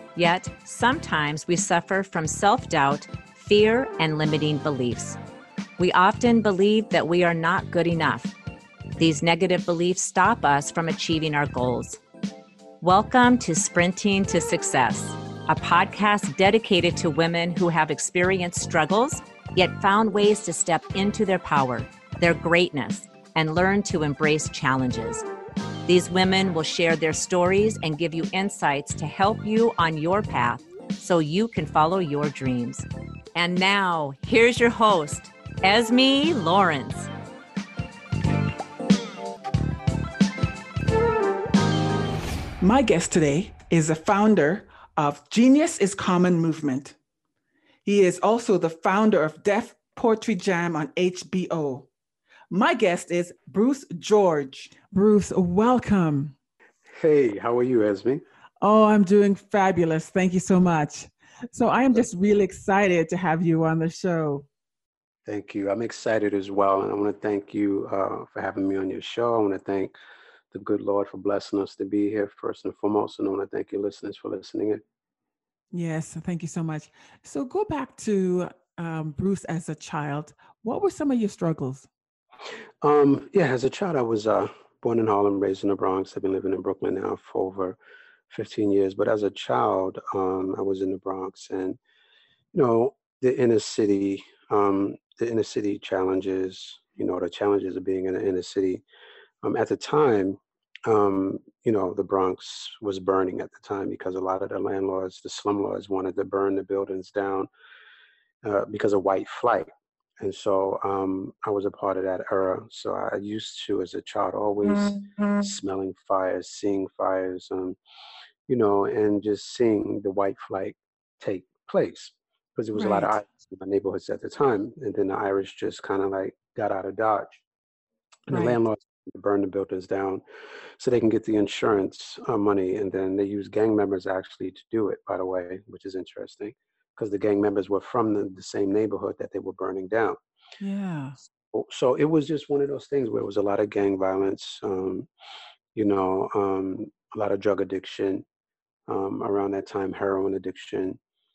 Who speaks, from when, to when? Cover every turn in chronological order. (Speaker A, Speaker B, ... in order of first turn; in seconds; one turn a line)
Speaker A: 0.1-5.2
Speaker A: 5.8-8.3
Speaker A: 9.0-12.0
Speaker A: 12.8-25.3
Speaker A: 25.9-37.1
Speaker B: 42.6-47.0
Speaker B: 47.9-51.9
Speaker B: 52.5-56.3
Speaker C: 56.9-58.2
Speaker B: 58.6-64.5
Speaker C: 65.3-69.9
Speaker C: 70.5-74.8
Speaker B: 75.7-81.9
Speaker C: 82.8-87.8
Speaker C: 88.3-91.8
Speaker C: 92.5-98.8
Speaker C: 99.4-107.5
Speaker C: 108.4-109.7
Speaker C: 110.2-117.8
Speaker C: 118.5-127.4
Speaker B: 122.8-123.2
Speaker C: 128.3-130.2
Speaker B: 128.3-128.6
Speaker C: 130.8-140.2
Speaker B: 140.6-141.2
Speaker C: 141.2-145.1
Speaker C: 145.8-148.2
Speaker C: 148.9-151.0